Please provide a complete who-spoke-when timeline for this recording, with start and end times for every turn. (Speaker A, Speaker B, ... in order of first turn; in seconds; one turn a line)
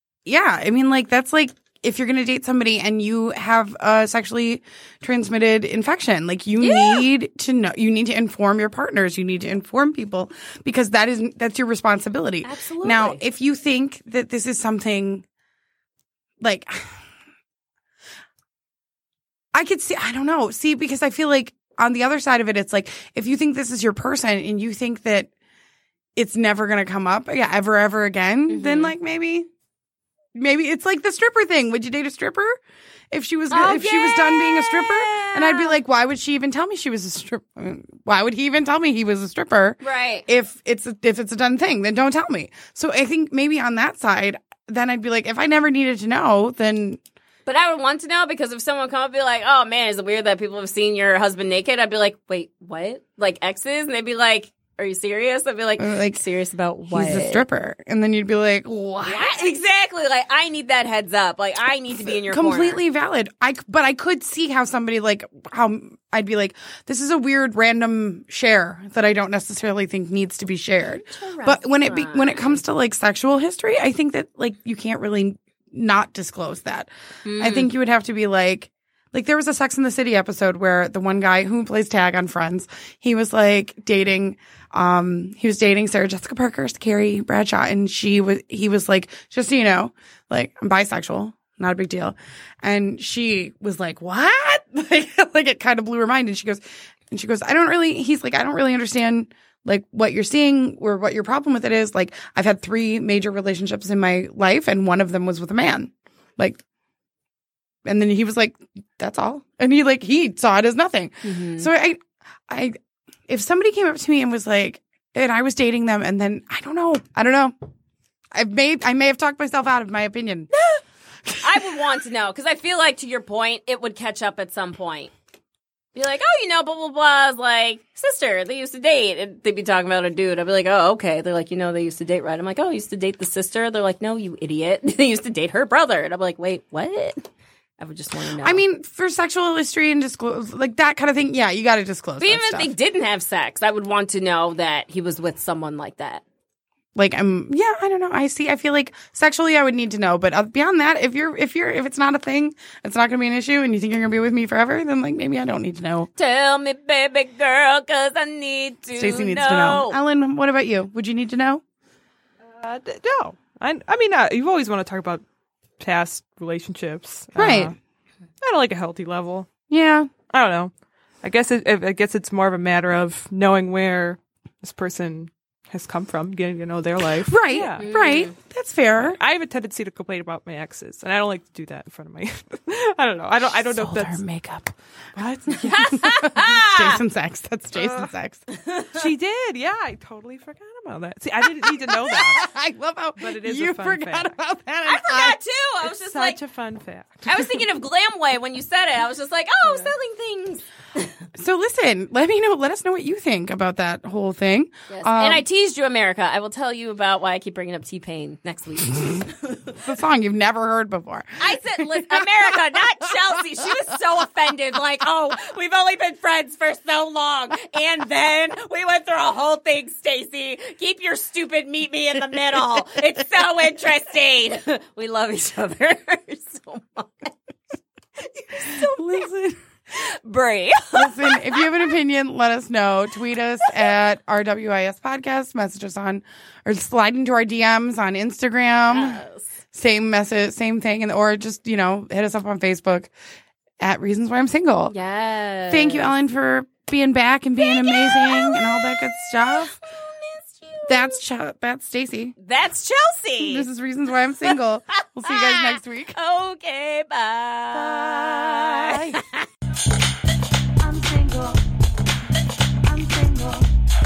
Speaker A: 0.2-15.2
Speaker B: 6.6-7.1
Speaker B: 12.4-13.2
Speaker A: 16.4-17.0
Speaker A: 19.5-25.3
Speaker A: 26.1-29.5
Speaker B: 28.5-28.9
Speaker A: 30.3-32.6
Speaker A: 33.1-47.0
Speaker B: 33.5-35.8
Speaker B: 39.8-40.2
Speaker B: 47.5-57.4
Speaker A: 55.8-56.2
Speaker A: 56.9-59.5
Speaker B: 59.0-62.8
Speaker A: 62.3-106.6
Speaker B: 71.0-72.6
Speaker B: 77.2-77.7
Speaker A: 107.8-112.8
Speaker B: 111.2-111.7
Speaker A: 113.3-117.5
Speaker A: 118.3-120.5
Speaker B: 120.5-120.8
Speaker A: 121.3-121.8
Speaker B: 121.4-125.1
Speaker B: 125.9-137.2
Speaker B: 137.8-138.6
Speaker A: 138.4-142.7
Speaker B: 142.2-146.2
Speaker A: 146.9-156.1
Speaker B: 156.1-160.0
Speaker A: 158.9-161.6
Speaker C: 162.5-165.2
Speaker C: 165.8-167.8
Speaker A: 167.3-167.7
Speaker C: 168.4-169.5
Speaker A: 169.7-170.1
Speaker C: 170.3-170.7
Speaker C: 171.2-177.9
Speaker A: 177.3-179.2
Speaker B: 177.8-178.3
Speaker C: 179.1-184.2
Speaker A: 183.7-188.4
Speaker C: 185.4-185.7
Speaker B: 185.6-187.0
Speaker C: 187.7-188.1
Speaker B: 188.5-189.0
Speaker C: 188.9-192.5
Speaker A: 191.6-195.4
Speaker C: 193.2-194.3
Speaker B: 194.8-196.4
Speaker C: 196.0-197.5
Speaker B: 197.2-201.1
Speaker A: 201.3-205.4
Speaker B: 204.9-209.7
Speaker A: 209.8-212.5
Speaker B: 211.4-227.3
Speaker A: 222.5-222.8
Speaker B: 228.2-229.3
Speaker A: 228.6-229.6
Speaker B: 229.9-231.7
Speaker A: 230.9-239.2
Speaker B: 238.9-239.5
Speaker A: 239.7-243.1
Speaker A: 243.8-244.9
Speaker B: 244.9-246.1
Speaker A: 245.7-249.8
Speaker B: 247.6-251.2
Speaker A: 250.9-252.3
Speaker B: 252.4-253.7
Speaker A: 253.4-256.1
Speaker B: 255.2-259.5
Speaker A: 257.7-259.2
Speaker A: 260.8-261.6
Speaker A: 262.8-263.7